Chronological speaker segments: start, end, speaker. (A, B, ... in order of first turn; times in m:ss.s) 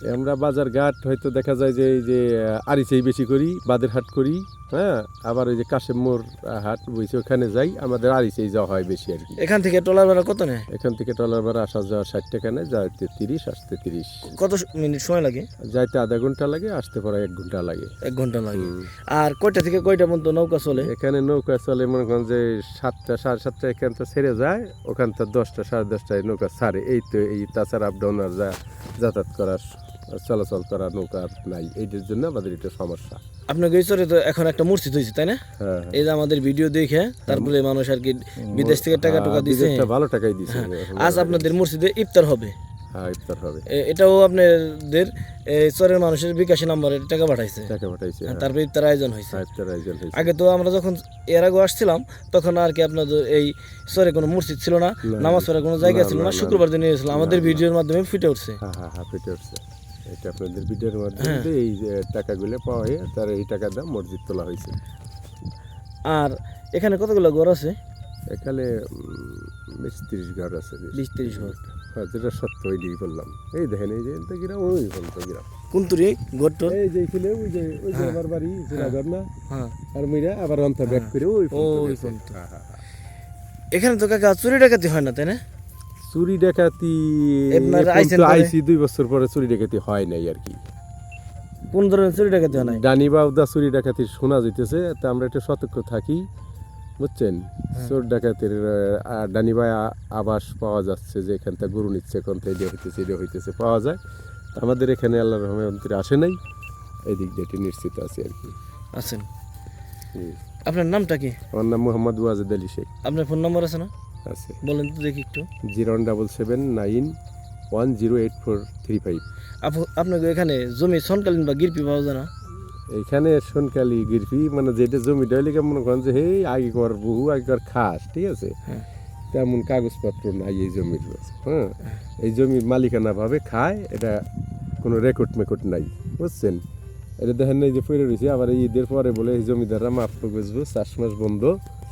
0:00.1-0:09.4 A
0:09.4-0:10.7 B
0:10.7-0:14.3 A
0:14.3-0:15.5 B
0:15.7-0:17.9 A
0:18.0-0:20.9 B
0:18.5-0:18.9 A
0:20.7-0:33.2 A
0:33.5-0:39.9 B
0:35.6-0:36.1 A
0:37.3-0:37.5 A
0:38.4-0:41.6 A
0:40.5-0:42.6 B
0:42.9-0:43.6 A
0:43.7-0:47.7 B
0:47.7-0:48.5 A
0:48.3-0:49.4 B
0:49.3-0:50.3 A
0:50.1-0:58.6 B
0:55.0-0:57.7 A
0:58.6-1:04.8 A
1:01.2-1:01.5 B
1:06.1-1:07.8 B
1:08.3-1:15.5 A
1:10.9-1:11.6 B
1:15.7-1:16.8 B
1:16.7-1:19.3 A
1:17.9-1:18.2 B
1:19.5-1:19.8 B
1:19.9-1:22.8 A
1:20.9-1:22.3 B
1:23.7-1:25.4 B
1:26.0-1:30.6 A
1:27.5-1:28.5 B
1:31.7-1:32.8 B
1:32.5-1:36.3 A
1:37.0-1:44.0 A
1:44.5-1:46.4 A
1:47.1-1:48.6 A
1:48.9-1:49.3 B
1:50.2-1:50.4 A
1:50.6-1:51.4 B
1:51.5-1:52.9 A
1:53.0-1:53.9 B
1:54.3-1:54.6 A
1:54.6-1:55.5 B
1:55.7-1:57.2 A
1:57.7-1:59.2 A
1:59.6-2:02.3 B
2:02.9-2:08.6 A
2:09.3-2:14.3 A
2:14.8-2:16.6 A
2:17.2-2:21.6 A